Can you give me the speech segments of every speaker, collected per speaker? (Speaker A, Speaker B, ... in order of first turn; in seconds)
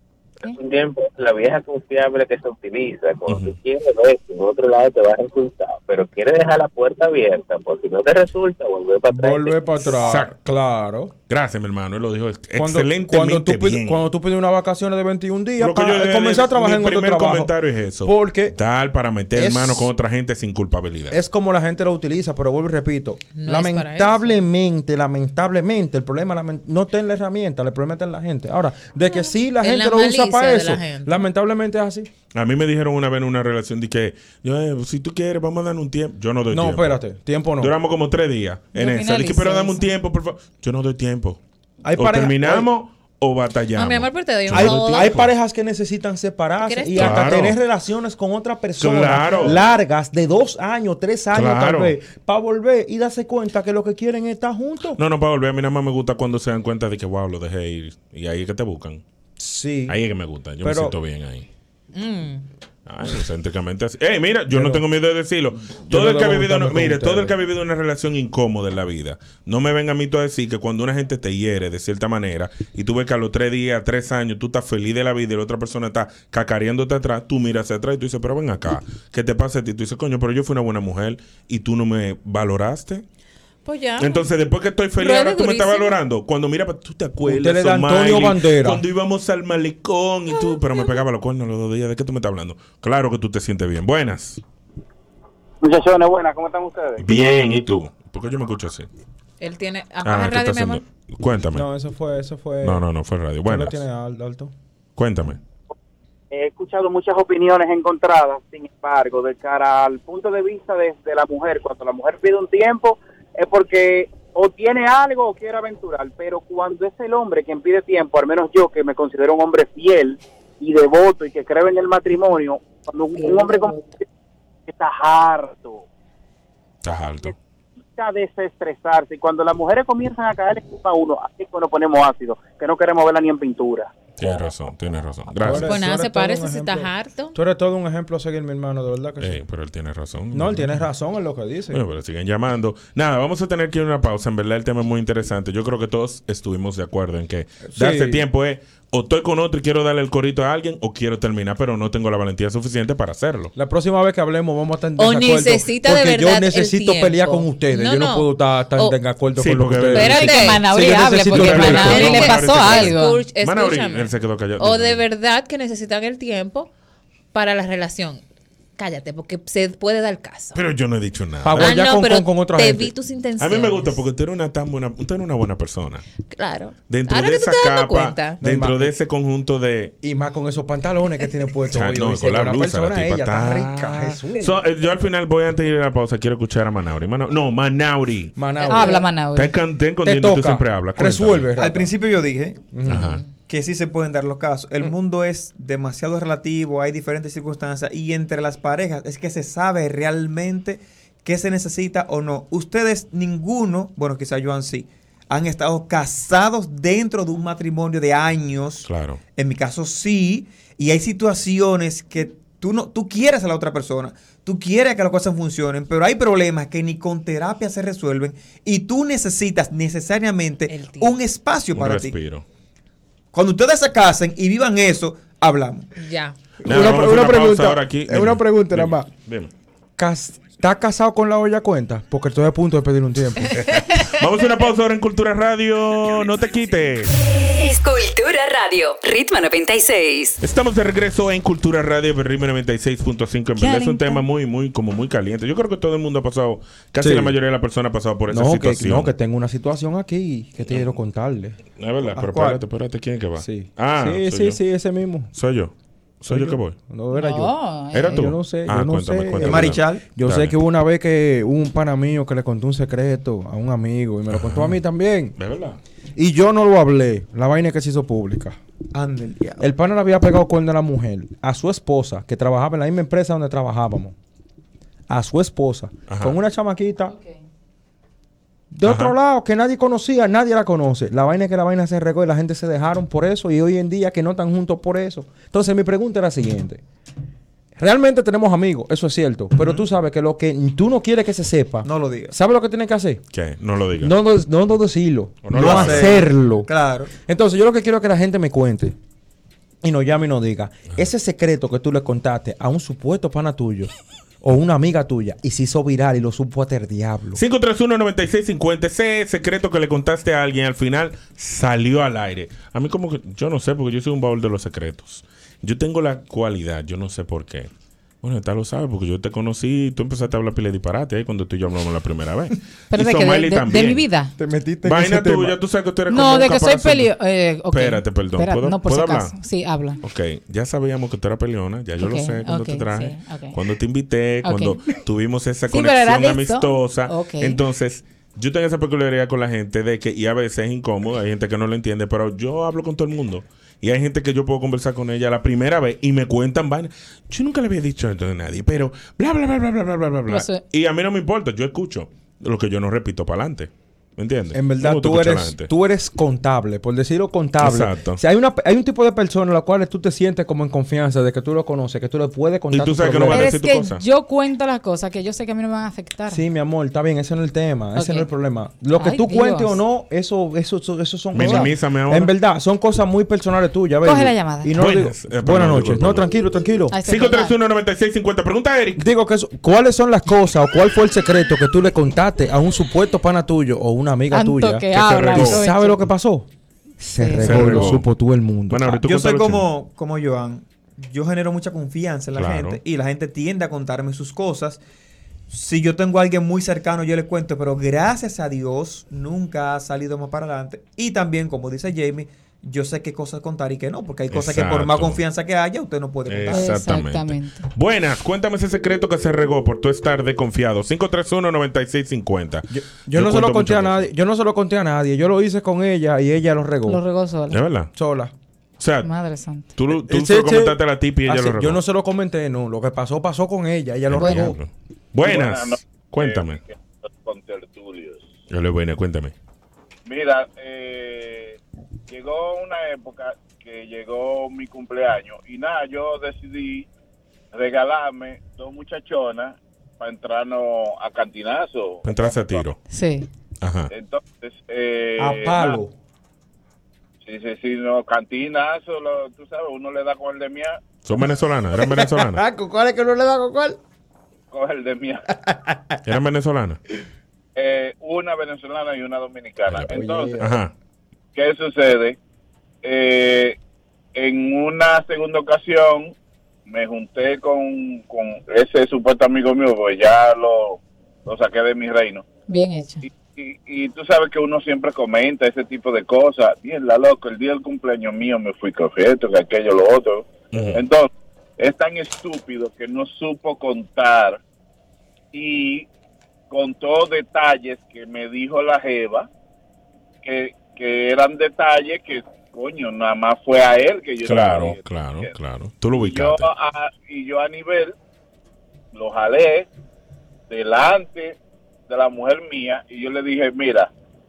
Speaker A: 0.5-9.5
Speaker B: 3.2-3.6, 9.9-10.3, 11.3-14.0, 15.6-21.2, 32.3-37.0, 37.6-41.4, 42.0-45.3, 47.0-47.6, 48.8-49.6, 51.3-51.9, 55.0-59.0, 59.9-61.5, 62.9-83.0, 84.0-94.4, 97.0-98.9, 100.0-101.7, 102.6-103.8, 105.0-105.4, 126.8-127.3, 134.2-135.8, 139.2-140.8, 141.7-153.5, 159.4-160.3, 161.3-165.0, 170.6-171.8, 173.4-176.0, 176.9-179.9, 181.7-188.4, 189.3-191.5, 192.9-193.2, 208.8-209.2, 221.7-222.4, 226.7-229.5, 233.6-237.1, 240.4-249.1, 251.8-254.6, 255.3-256.8, 257.9-260.6, 264.3-264.8, 265.4-265.8, 276.1-276.4, 278.8-279.1, 293.3-294.1, 295.4-296.2, 307.4-317.7, 318.2-324.1, 324.9-327.1, 327.7-329.4, 330.0-355.7, 357.6-358.2, 362.7-364.0, 371.3-372.3, 374.8-376.3, 377.1-379.1, 384.9-385.6, 387.4-388.1, 388.7-389.7, 392.4-392.8, 404.3-405.2, 406.3-414.1, 417.5-417.9, 418.8-419.1, 419.8-421.8, 424.1-426.6, 428.5-429.3, 442.0-442.8, 443.6-443.9, 451.0-452.4, 456.1-456.8, 459.7-460.7, 480.5-480.8, 494.2-496.5
Speaker C: 9.1-11.1, 12.6-17.5, 18.0-18.6, 19.3-19.9, 21.1-32.1, 36.5-37.7, 41.8-42.7, 44.5-55.0, 59.4-60.0, 60.6-61.0, 64.5-64.8, 65.7-67.3, 87.2-88.8, 101.5-102.8, 103.5-104.5, 135.4-139.4, 140.3-141.8, 147.7-148.2, 153.6-162.4, 171.4-172.9, 178.4-178.9, 180.0-184.6, 188.4-189.0, 190.0-191.9, 192.7-193.2, 226.7-229.1, 230.0-233.6, 247.0-247.4, 248.3-251.6, 253.4-255.3, 256.3-257.5, 258.1-265.4, 266.2-268.6, 269.6-274.1, 275.1-277.1, 278.7-286.8, 287.8-293.2, 294.0-299.0, 299.8-303.9, 304.4-307.4, 324.4-325.6, 354.5-363.5, 366.3-376.9, 379.0-386.5, 387.0-389.0, 412.7-417.0, 417.9-418.3, 419.9-424.6, 445.2-445.9, 451.8-453.8, 455.5-456.0, 459.9-460.6
Speaker D: 23.3-24.4, 29.1-31.2, 43.7-45.2, 46.6-47.4, 61.9-62.5, 83.7-84.3, 85.0-86.0, 99.4-100.8, 123.3-123.8, 135.6-137.4, 155.0-159.0, 159.9-166.7, 167.3-168.2, 168.8-170.6, 171.6-174.0, 176.3-178.4, 188.6-189.0, 220.7-221.2, 226.0-226.4
Speaker E: 38.8-39.8, 160.0-163.2, 188.7-189.5, 243.6-244.2, 257.1-258.3, 322.9-324.3, 326.1-330.0, 332.0-333.6, 334.4-334.7, 335.7-337.6, 350.3-350.6, 363.3-366.4, 368.0-368.3, 369.0-369.8, 371.4-371.7, 374.0-374.7, 376.9-377.6, 384.3-386.0, 387.2-387.8, 406.5-407.7, 416.9-417.6, 419.0-419.7, 424.2-424.5, 442.9-443.3, 472.5-473.1
Speaker F: 95.6-97.0, 106.3-123.8, 124.7-125.8, 128.0-133.9
Speaker G: 191.6-192.7, 193.5-222.2, 223.3-225.9, 252.2-252.6, 259.4-260.1, 268.9-269.6, 291.8-292.3, 295.5-297.1, 389.0-394.8, 395.5-406.7
Speaker H: 237.4-240.4
Speaker I: 425.2-428.4, 430.1-436.9, 437.5-442.6, 443.9-445.8, 447.2-450.8, 454.5-455.2, 457.6-460.4, 461.3-462.2, 462.8-463.6, 464.1-466.1, 466.7-472.3, 473.1-484.4, 485.3-485.9, 486.5-489.3, 490.2-495.3, 496.0-497.9, 498.9-499.7, 500.5-501.4, 501.9-503.9